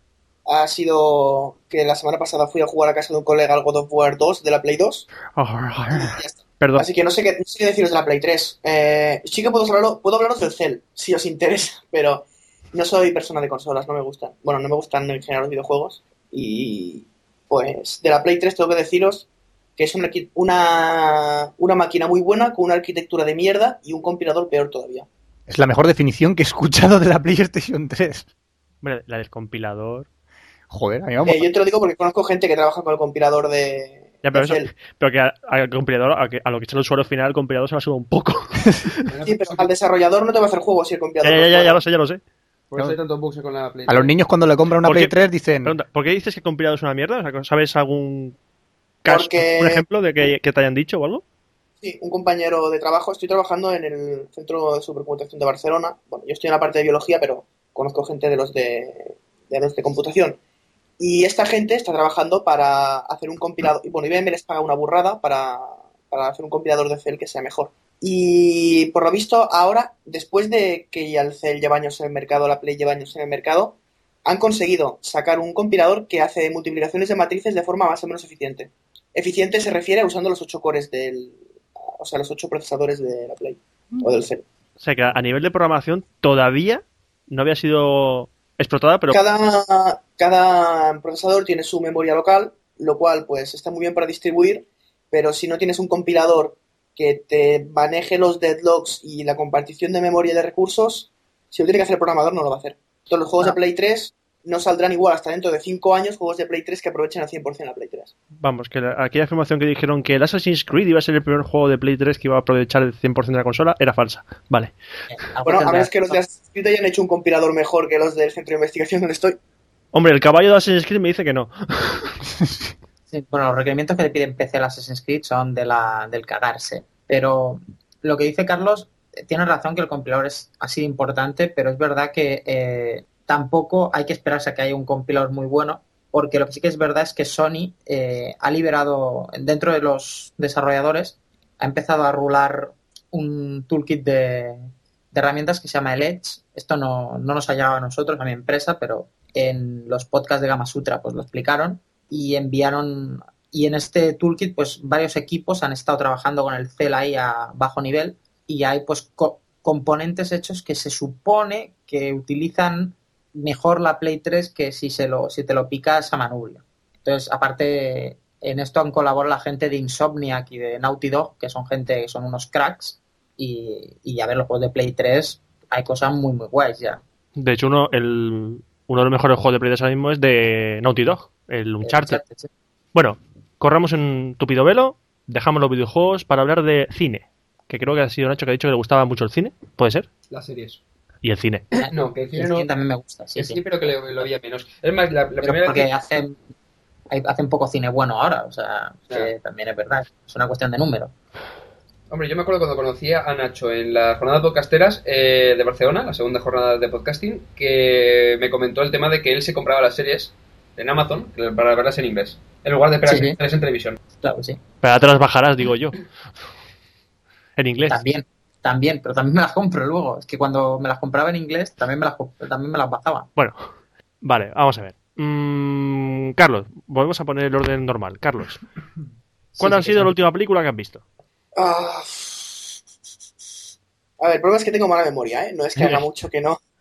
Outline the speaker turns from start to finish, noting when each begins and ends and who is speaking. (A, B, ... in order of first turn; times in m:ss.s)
0:00.5-0:05.1 A
0:05.4-0:06.8 B
0:05.9-0:25.1 A
0:25.5-0:28.3 C
0:28.8-0:30.1 B
0:30.7-0:31.5 C
0:31.2-0:34.7 A
0:34.2-0:39.0 B
0:39.1-0:39.7 D
0:39.2-0:41.8 A
0:41.2-0:42.2 B
0:42.7-0:44.1 D
0:43.9-0:45.8 C
0:44.8-0:48.4 B
0:49.0-0:51.2 B
0:49.1-0:49.8 A
0:51.8-1:00.4 A
1:01.0-1:21.4 A
1:22.0-1:24.4 A
1:24.8-1:29.2 B
1:29.1-1:48.1 A
1:48.4-1:54.7 B
1:55.1-1:56.2 E
1:55.4-1:59.4 A
1:59.9-2:02.2 B
2:02.4-2:02.7 C
2:03.1-2:57.0 E
2:57.4-3:02.2 B
3:01.8-3:02.5 E
3:02.9-3:10.1 B
3:10.3-3:10.8 D
3:11.2-3:11.6 B
3:11.8-3:13.6 E
3:11.9-3:12.7 D
3:13.4-3:15.9 D
3:15.4-3:16.4 E
3:17.1-3:21.1 E
3:22.1-3:34.0 D
3:33.1-3:33.4 E
3:34.2-3:34.6 E
3:34.8-3:36.0 B
3:37.6-3:38.0 B
3:37.9-3:43.3 E
3:43.4-3:43.6 B
3:44.2-3:48.6 B
3:49.6-3:51.0 B
3:51.6-3:52.7 A
3:54.2-3:56.6 A
3:55.8-3:56.0 B